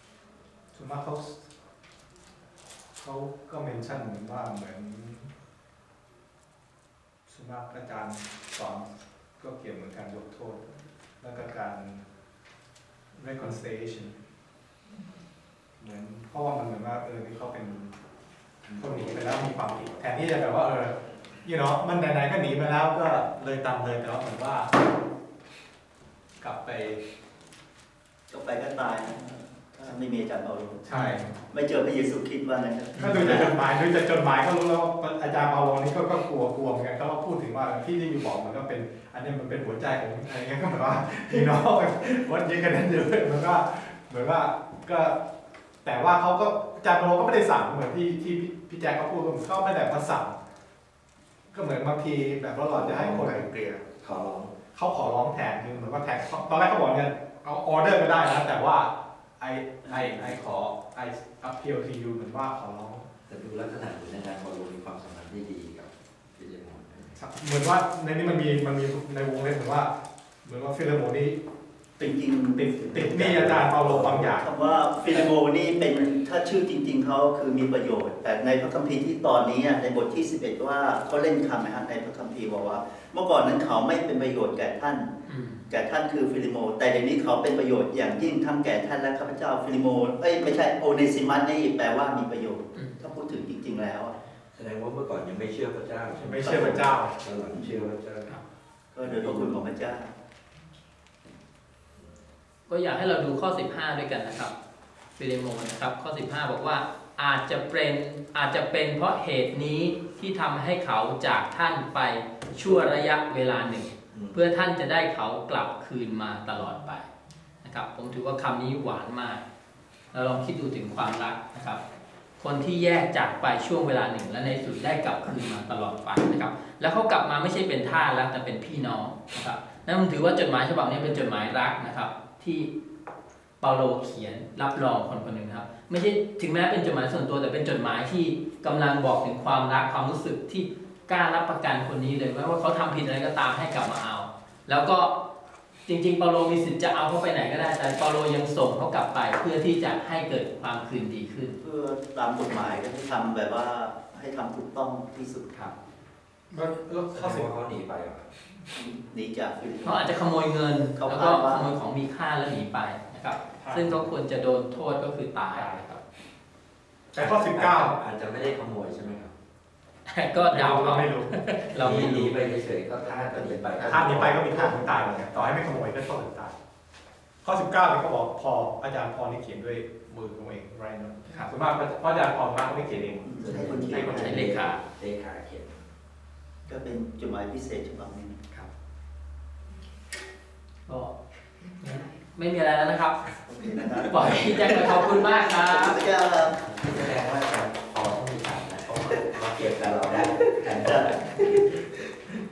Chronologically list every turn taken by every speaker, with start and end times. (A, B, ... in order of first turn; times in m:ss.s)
0:00.7-0:01.4 A
0:03.0-0:05.3 A
0:07.3-0:12.0 A
0:13.2-0:14.2 A
0:15.8-0:18.0 A
0:18.6-0:19.2 B
0:18.7-0:24.7 A
0:26.4-0:27.0 A
0:28.3-0:30.8 C
0:30.8-0:31.4 A
0:30.9-0:31.2 D
0:31.5-0:33.5 C
0:33.0-0:45.2 A
0:45.8-0:50.4 A
0:51.5-0:53.5 A
0:52.7-0:53.3 B
0:53.0-0:53.8 C
0:54.0-0:54.5 B
0:54.7-1:03.1 A
0:59.8-1:00.3 C
1:03.3-1:07.2 B
1:07.2-1:09.9 A
1:10.4-1:11.4 A
1:12.0-1:25.1 C
1:12.5-1:14.5 A
1:25.3-1:25.6 D
1:25.7-1:34.1 C
1:34.5-1:38.4 B
1:36.1-1:37.1 A
1:36.4-1:36.8 C
1:38.9-1:40.1 C
1:39.0-1:39.6 B
1:42.7-1:44.5 D
1:45.2-1:57.1 D
1:54.1-1:54.4 B
1:57.6-1:59.4 D
2:00.1-2:01.8 D
2:02.4-2:12.7 D
2:13.6-2:25.1 D
2:25.8-2:31.6 D
2:31.6-2:35.7 C
2:36.5-2:37.5 A
2:37.1-2:38.3 B
2:38.7-2:40.1 C
2:39.8-2:46.0 D
2:41.0-2:41.7 C
2:43.6-2:44.0 A
2:47.1-2:47.9 A
2:47.1-2:49.3 B
2:50.1-2:52.4 D
2:50.5-2:51.3 A
2:51.8-2:55.4 B
2:53.1-2:54.8 C
2:53.5-2:56.5 A
2:57.4-3:03.4 A
3:03.2-3:04.5 C
3:03.4-3:05.7 B
3:03.8-3:04.8 D
3:06.7-3:08.4 C
3:10.8-3:11.1 D
3:11.8-3:13.2 D
3:13.4-3:16.6 C
3:14.0-3:16.0 D
3:16.6-3:21.8 B
3:20.8-3:21.2 C